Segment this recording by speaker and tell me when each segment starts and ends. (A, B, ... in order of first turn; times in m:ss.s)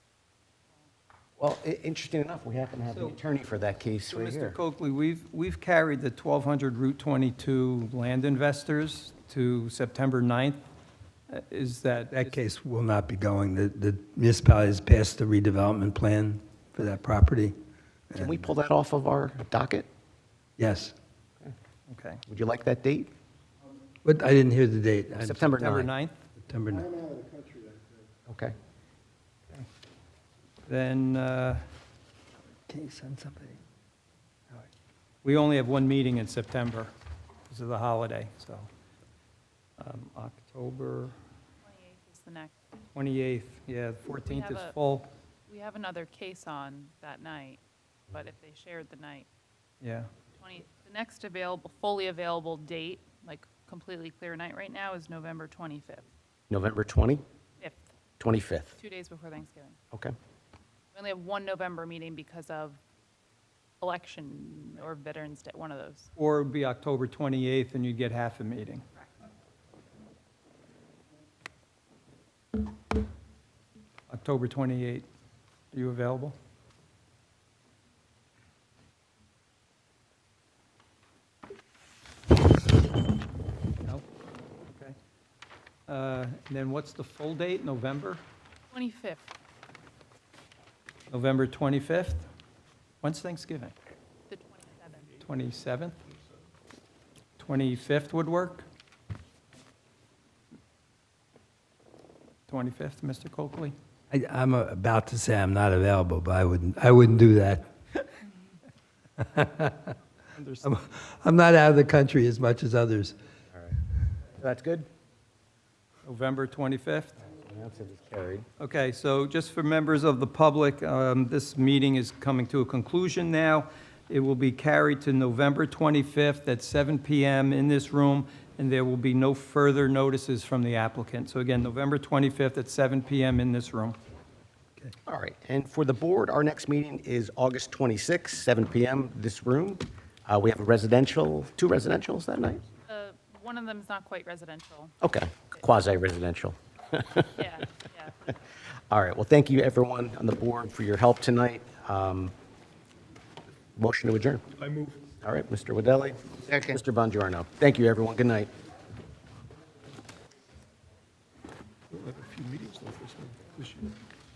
0:01.4-0:04.6 A
0:02.9-0:03.2 B
0:04.1-0:10.6 B
0:11.3-0:12.4 B
0:12.1-0:17.5 C
0:18.1-0:18.5 C
0:18.2-0:19.9 A
0:20.6-0:20.9 C
0:21.9-0:22.2 B
0:22.3-0:23.1 A
0:24.0-0:25.6 C
0:25.2-0:25.9 A
0:25.5-0:26.2 B
0:26.4-0:27.0 C
0:28.3-0:28.5 A
0:30.7-0:31.6 B
0:32.7-0:33.6 C
0:35.2-0:36.9 B
0:37.5-0:38.7 B
0:39.8-0:41.1 B
0:41.6-0:42.5 D
0:42.9-0:45.1 B
0:44.1-0:44.7 D
0:45.5-0:49.2 D
0:49.8-0:50.1 B
0:50.4-0:56.0 D
0:56.5-0:57.2 A
0:57.6-0:57.9 D
0:58.2-0:58.8 A
0:58.8-0:59.8 D
1:00.9-1:02.8 D
1:03.8-1:06.1 D
1:06.2-1:08.8 B
1:14.1-1:15.1 B
1:15.7-1:16.3 B
1:25.9-1:28.2 B
1:28.7-1:29.2 D
1:31.1-1:32.2 B
1:33.0-1:33.7 B
1:34.3-1:35.2 D
1:35.2-1:36.0 B
1:37.4-1:38.6 B
1:42.5-1:43.7 B
1:44.1-1:47.7 C
1:49.2-1:50.0 C
1:50.3-1:50.7 B
1:50.6-1:53.2 C
1:53.5-1:53.8 A
1:54.4-1:54.9 A
1:56.0-1:57.3 B
1:57.3-1:58.4 A
1:58.6-2:14.0 B
2:15.0-2:22.6 A
2:22.8-2:24.9 D
2:25.0-2:27.6 A
2:27.3-2:28.3 D
2:28.9-2:32.3 A
2:33.8-2:34.4 A
2:34.6-2:35.0 E
2:35.2-2:38.5 A
2:41.9-2:44.0 E